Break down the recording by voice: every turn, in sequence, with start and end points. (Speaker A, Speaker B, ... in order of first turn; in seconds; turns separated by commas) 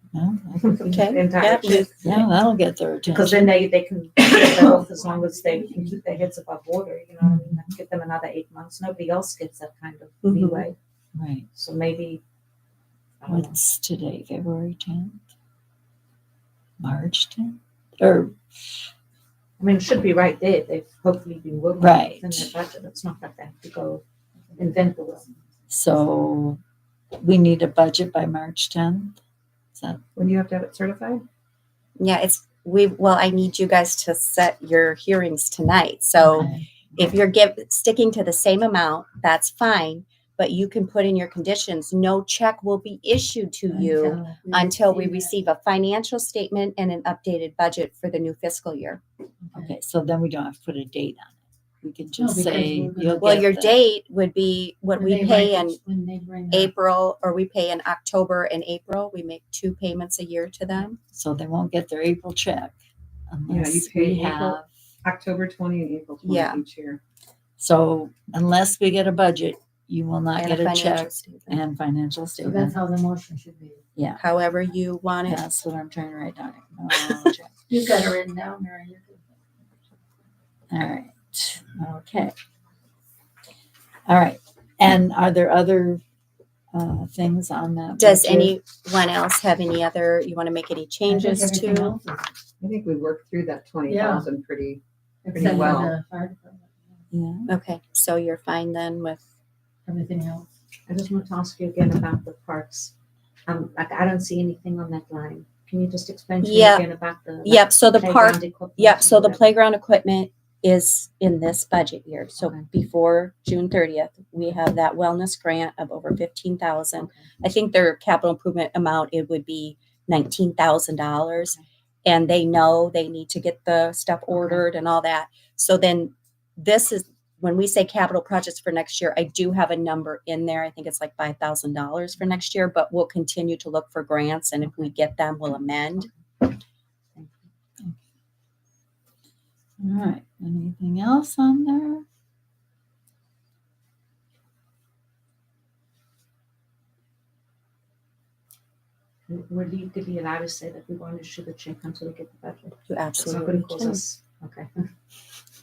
Speaker A: 0.1-0.9, Speaker B: 0.6-2.2, Speaker C: 0.8-1.9, Speaker A: 2.0-3.5, Speaker B: 3.1-10.8, Speaker A: 7.2-7.7, Speaker C: 10.2-10.6, Speaker A: 11.2-11.5, Speaker B: 11.5-12.2, Speaker B: 13.2-13.6, Speaker A: 13.3-15.2, Speaker A: 16.8-18.9, Speaker B: 19.6-24.0, Speaker A: 21.8-22.5, Speaker B: 24.6-25.3, Speaker A: 25.7-26.6, Speaker A: 27.2-29.2, Speaker A: 29.8-30.0, Speaker D: 30.1-31.2, Speaker C: 32.0-49.0, Speaker A: 36.2-36.6, Speaker E: 43.7-45.3, Speaker A: 49.5-53.8, Speaker E: 52.2-53.5, Speaker C: 53.2-55.8, Speaker E: 55.0-56.7, Speaker C: 56.5-61.0, Speaker A: 61.1-62.8, Speaker A: 63.3-64.7, Speaker D: 63.5-67.0, Speaker C: 66.2-66.6, Speaker A: 67.6-72.8, Speaker C: 70.4-71.6, Speaker E: 72.4-73.8, Speaker A: 74.0-74.2, Speaker C: 74.2-75.4, Speaker A: 75.2-77.5, Speaker E: 77.7-79.3, Speaker A: 80.7-82.3, Speaker A: 84.1-86.0, Speaker A: 86.7-88.5, Speaker C: 88.0-91.9, Speaker E: 91.0-92.3, Speaker D: 92.6-96.0, Speaker E: 93.9-94.3, Speaker E: 95.2-96.8, Speaker A: 97.1-97.5, Speaker C: 97.5-99.2, Speaker E: 99.9-100.5, Speaker B: 100.9-102.9, Speaker B: 103.5-109.4, Speaker C: 106.4-106.8, Speaker C: 107.5-121.5, Speaker B: 112.4-112.7, Speaker B: 117.0-117.3, Speaker C: 122.0-136.1, Speaker A: 139.8-142.0, Speaker B: 149.3-154.7, Speaker C: 152.9-154.0